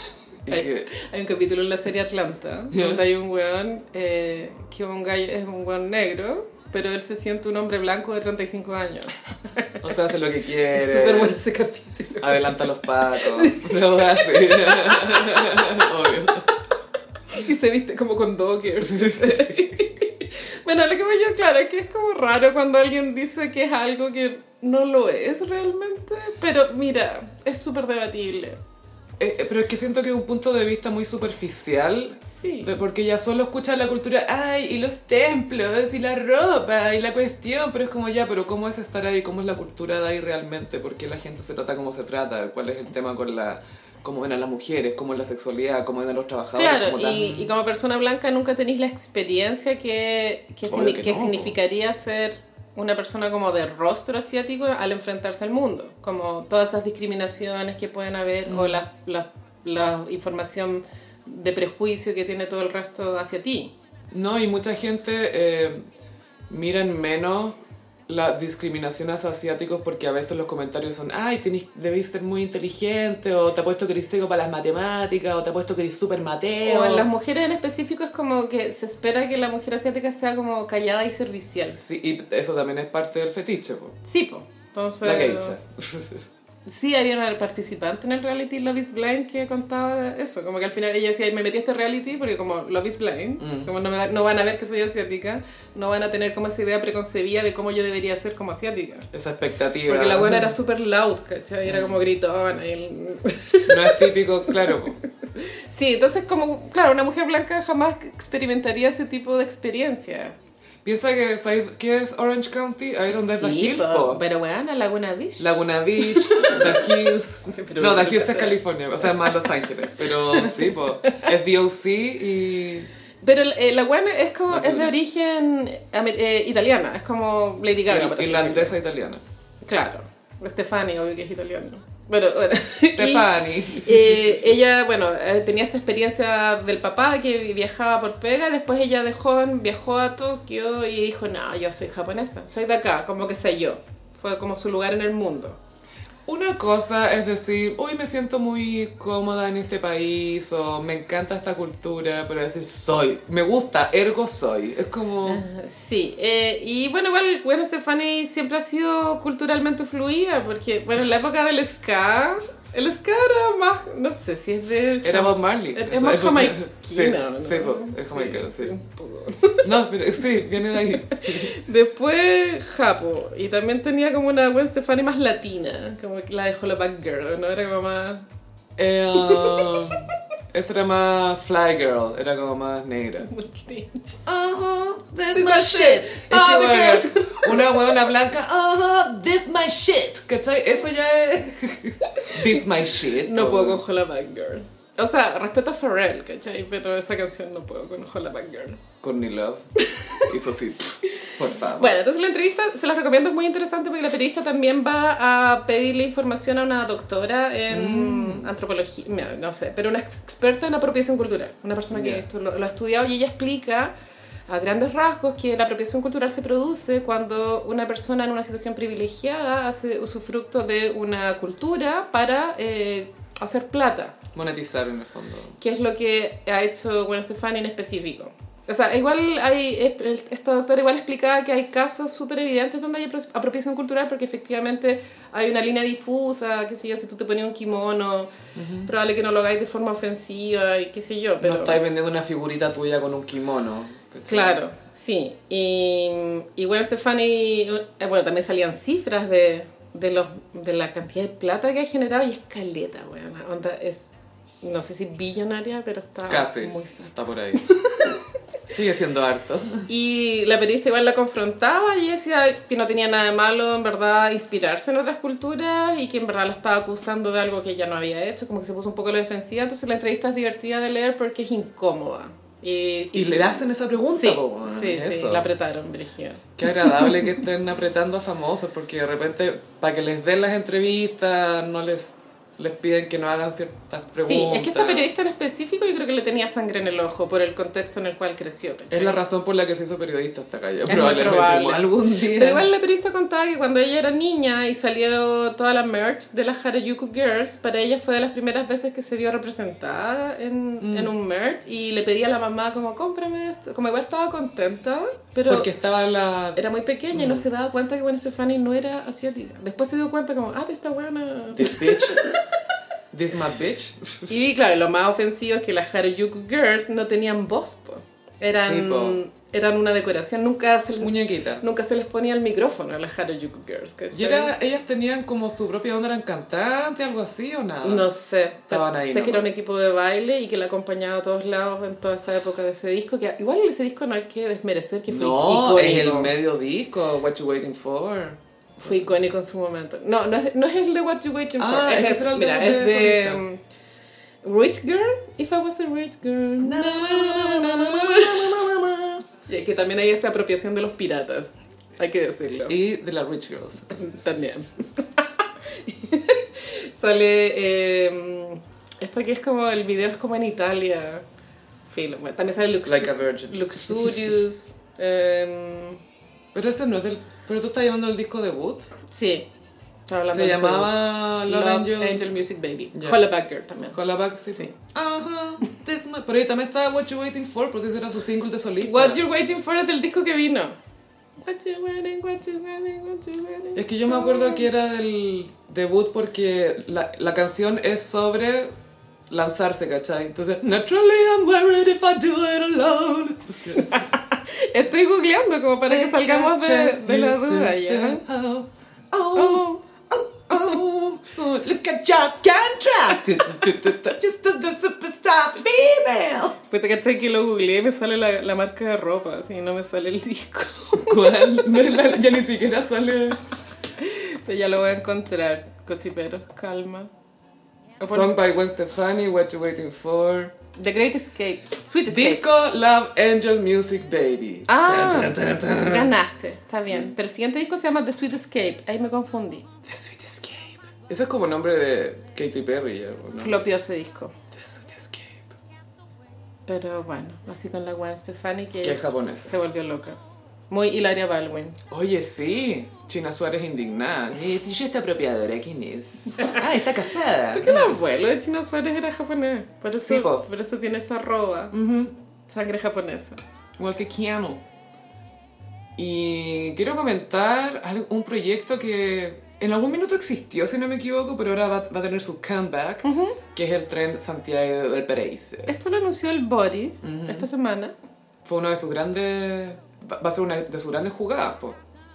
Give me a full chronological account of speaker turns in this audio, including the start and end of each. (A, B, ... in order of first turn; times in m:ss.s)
0:00.4-0:00.9 A
0:00.5-0:09.8 B
0:02.7-0:03.0 A
0:09.8-0:11.4 A
0:10.7-0:15.9 B
0:12.2-0:16.5 A
0:17.3-0:28.6 B
0:18.8-0:19.6 A
0:29.2-0:47.5 A
0:32.3-0:32.7 B
0:46.5-1:03.7 B
0:50.7-0:51.6 A
0:58.5-0:58.8 A
1:04.1-1:05.8 A
1:06.5-1:17.1 A
1:16.6-1:21.8 B
1:21.8-1:24.0 A
1:24.0-1:25.6 B
1:25.0-1:26.2 A
1:26.6-1:39.1 B
1:33.4-1:33.7 A
1:39.1-1:40.5 A
1:39.8-1:44.8 B
1:41.6-1:42.0 A
1:43.6-1:45.0 A
1:45.3-1:50.4 B
1:50.8-1:54.2 A
1:53.4-1:56.9 B
1:55.4-2:02.9 A
1:57.4-1:59.5 B
2:00.1-2:01.3 B
2:03.2-2:08.7 B
2:04.5-2:04.9 A
2:07.9-2:09.2 A
2:09.6-2:25.6 B
2:12.9-2:14.6 A
2:26.2-2:35.4 A
2:35.2-2:49.7 B
2:45.0-2:48.7 A
2:49.6-2:51.6 A
2:50.9-2:58.2 B
2:58.8-3:03.3 A
2:59.1-3:00.1 B
3:03.2-3:04.2 B
3:04.2-3:13.8 A
3:05.3-3:08.0 B
3:13.2-3:18.8 B
3:19.0-3:22.0 A
3:19.9-3:20.3 B
3:21.8-3:33.9 B
3:27.7-3:28.5 A
3:31.9-3:32.2 A
3:34.5-3:44.2 B
3:44.3-3:45.6 A
3:45.6-3:58.3 B
3:58.5-3:58.9 A
3:58.8-4:01.8 B
4:01.4-4:04.6 A
4:04.3-4:14.1 B
4:14.6-4:18.2 B
4:16.3-4:17.7 A
4:18.7-4:19.9 A
4:19.9-4:37.3 B
4:33.1-4:35.5 A
4:36.6-4:45.1 A
4:44.1-4:49.2 B
4:48.9-4:52.7 A
4:50.9-5:05.7 B
5:00.8-5:01.1 A
5:05.5-5:06.6 A
5:06.5-5:12.4 B
5:07.1-5:07.4 A
5:11.5-5:12.2 A
5:13.1-5:14.3 A
5:14.3-5:24.5 B
5:18.6-5:19.2 A
5:21.0-5:21.6 A
5:24.1-5:28.1 A
5:27.8-5:36.3 B
5:28.7-5:29.5 A
5:35.1-5:39.1 A
5:38.8-5:43.6 B
5:41.6-5:43.4 A
5:44.4-5:48.6 B
5:46.6-5:49.3 A
5:49.5-5:52.7 B
5:52.7-5:54.0 A
5:53.9-6:01.2 B
6:01.9-6:06.0 B
6:02.8-6:04.4 A
6:06.5-6:08.9 A
6:09.1-6:09.5 B
6:10.1-6:14.0 B
6:10.3-6:12.3 A
6:13.9-6:19.2 A
6:18.8-6:20.8 B
6:21.4-6:24.7 B
6:23.8-6:28.7 A
6:29.3-6:34.1 A
6:33.7-6:38.2 B
6:35.8-6:46.6 A
6:39.3-6:39.8 B
6:46.7-6:52.1 B
6:51.0-6:53.4 A
6:54.0-6:57.1 B
6:58.0-6:58.3 B
6:58.0-7:00.5 A
7:00.7-7:02.4 B
7:02.1-7:06.1 A
7:04.7-7:09.7 B
7:06.8-7:07.1 A
7:09.8-7:13.6 A
7:13.4-7:14.3 B
7:14.5-7:15.4 A
7:16.7-7:21.8 B
7:18.8-7:19.5 A
7:21.9-7:28.0 A
7:26.4-7:26.6 B
7:27.5-7:31.8 B
7:30.0-7:30.4 A
7:31.7-7:32.1 A
7:32.5-7:33.4 B
7:33.8-7:34.6 A
7:36.0-7:45.7 A
7:43.0-7:43.4 B
7:45.7-7:47.9 B
7:47.0-7:47.5 A
7:48.4-7:51.8 A